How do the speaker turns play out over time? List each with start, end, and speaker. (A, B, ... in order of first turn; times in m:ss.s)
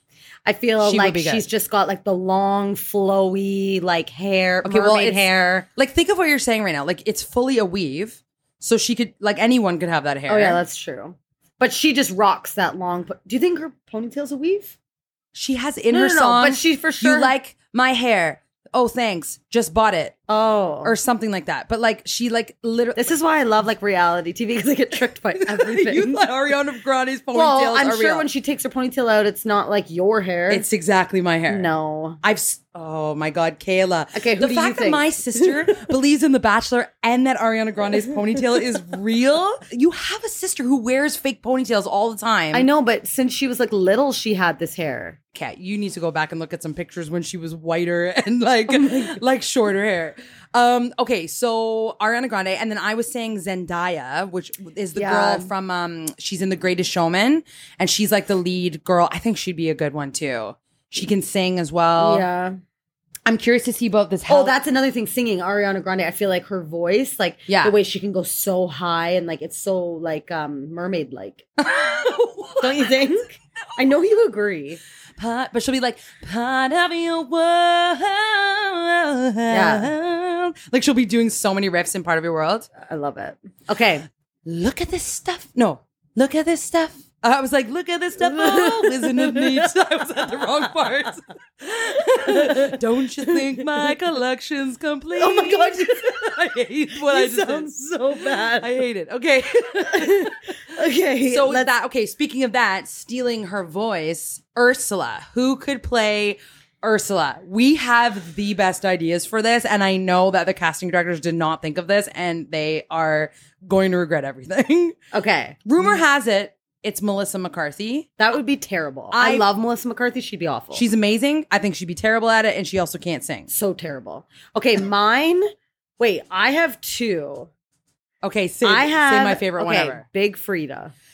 0:00.4-0:05.6 A
0:00.8-0:01.4 B
0:04.6-0:10.6 B
0:10.3-0:14.7 A
0:15.3-0:20.2 B
0:15.9-0:17.3 A
0:20.3-0:20.9 A
0:20.8-0:23.1 B
0:23.0-0:26.2 A
0:25.4-0:28.3 B
0:27.3-0:30.6 A
0:30.5-0:31.7 B
0:31.5-0:32.2 A
0:32.2-0:42.7 B
0:34.1-0:35.8 A
0:42.5-0:45.2 A
0:45.3-1:02.3 B
0:48.7-0:49.2 A
0:54.9-0:55.5 A
1:02.0-1:02.6 A
1:03.2-1:04.5 B
1:04.3-1:11.5 A
1:07.5-1:07.7 B
1:11.6-1:13.0 B
1:12.6-1:14.8 A
1:15.2-1:22.7 B
1:19.5-1:19.9 A
1:22.8-1:24.0 A
1:24.4-1:40.4 B
1:28.2-1:29.7 A
1:30.2-1:30.6 A
1:32.1-1:33.9 A
1:35.2-1:36.3 A
1:37.0-1:38.8 A
1:39.9-1:41.7 A
1:41.2-1:55.0 B
1:55.1-1:56.0 A
1:55.6-1:58.1 B
1:58.2-2:00.8 A
1:59.1-1:59.5 B
2:00.7-2:03.5 B
2:03.5-2:05.5 A
2:06.0-2:07.5 A
2:08.2-2:10.0 B
2:08.6-2:10.9 A